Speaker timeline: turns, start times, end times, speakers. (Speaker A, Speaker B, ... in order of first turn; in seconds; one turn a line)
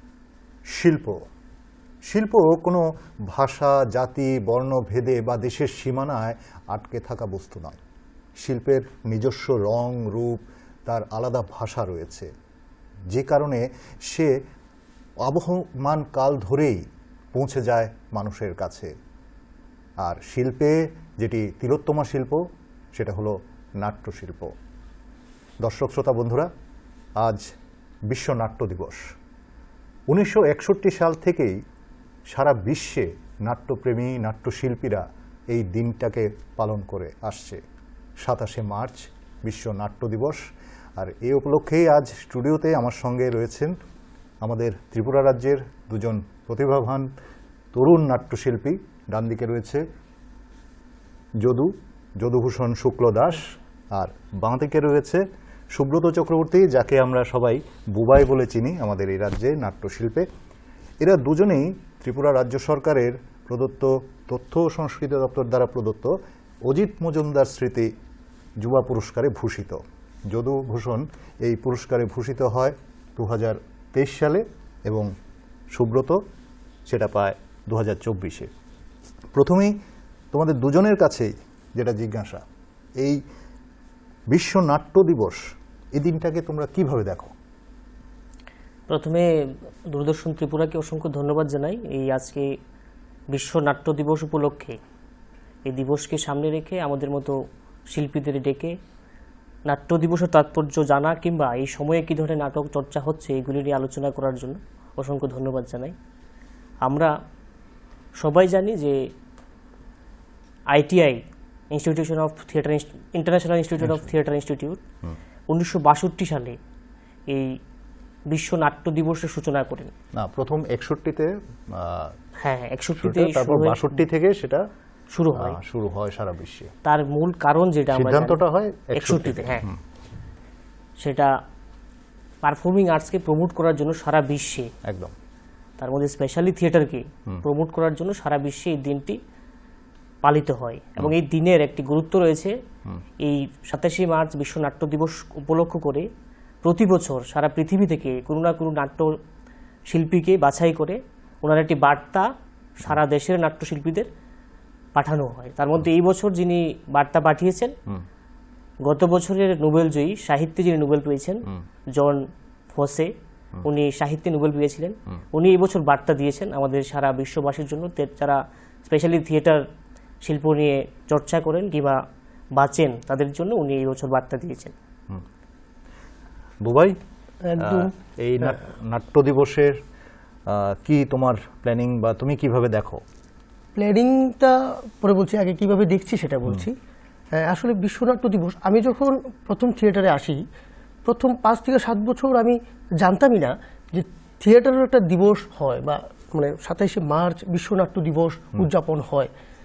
Speaker A: 0.7-1.2
Speaker A: 2.0-7.8
Speaker A: 8.4-12.3
Speaker A: 13.1-14.3
Speaker A: 15.2-18.9
Speaker A: 20.0-24.5
Speaker A: 25.6-26.5
Speaker A: 27.2-27.5
Speaker A: 28.1-29.0
Speaker A: 30.1-31.6
Speaker A: 32.3-37.6
Speaker A: 38.2-40.4
Speaker A: 41.0-43.7
Speaker A: 44.4-47.1
Speaker A: 47.7-49.8
Speaker A: 51.4-60.2
Speaker A: 61.0-67.9
Speaker A: 68.6-75.1
Speaker A: 75.7-76.2
Speaker A: 76.8-78.5
Speaker A: 79.3-79.7
Speaker A: 80.3-82.4
Speaker A: 84.3-87.3
Speaker B: 88.9-92.5
Speaker B: 93.3-94.8
Speaker B: 95.7-97.3
Speaker B: 97.9-98.7
Speaker B: 99.7-105.9
Speaker B: 106.8-107.1
Speaker B: 108.2-109.0
Speaker B: 110.7-111.2
Speaker B: 111.7-114.8
Speaker B: 115.5-116.6
Speaker B: 117.3-117.5
Speaker B: 118.3-119.9
Speaker A: 120.2-122.1
Speaker B: 122.4-123.8
Speaker A: 123.0-124.6
Speaker B: 125.1-125.6
Speaker A: 125.3-126.7
Speaker B: 126.8-128.4
Speaker A: 127.9-129.8
Speaker B: 128.9-129.7
Speaker B: 131.0-131.3
Speaker B: 132.4-134.7
Speaker A: 134.8-135.1
Speaker B: 135.8-139.2
Speaker B: 140.2-142.5
Speaker B: 143.2-146.1
Speaker B: 146.6-149.2
Speaker B: 149.9-154.1
Speaker B: 154.9-157.7
Speaker B: 158.8-161.4
Speaker B: 161.9-163.1
Speaker B: 163.6-169.6
Speaker B: 170.2-172.0
Speaker B: 172.6-174.7
Speaker A: 176.6-177.0
Speaker C: 177.4-177.9
Speaker A: 177.6-179.8
Speaker A: 180.5-183.0
Speaker C: 183.8-186.8
Speaker C: 187.3-190.4
Speaker C: 191.0-199.3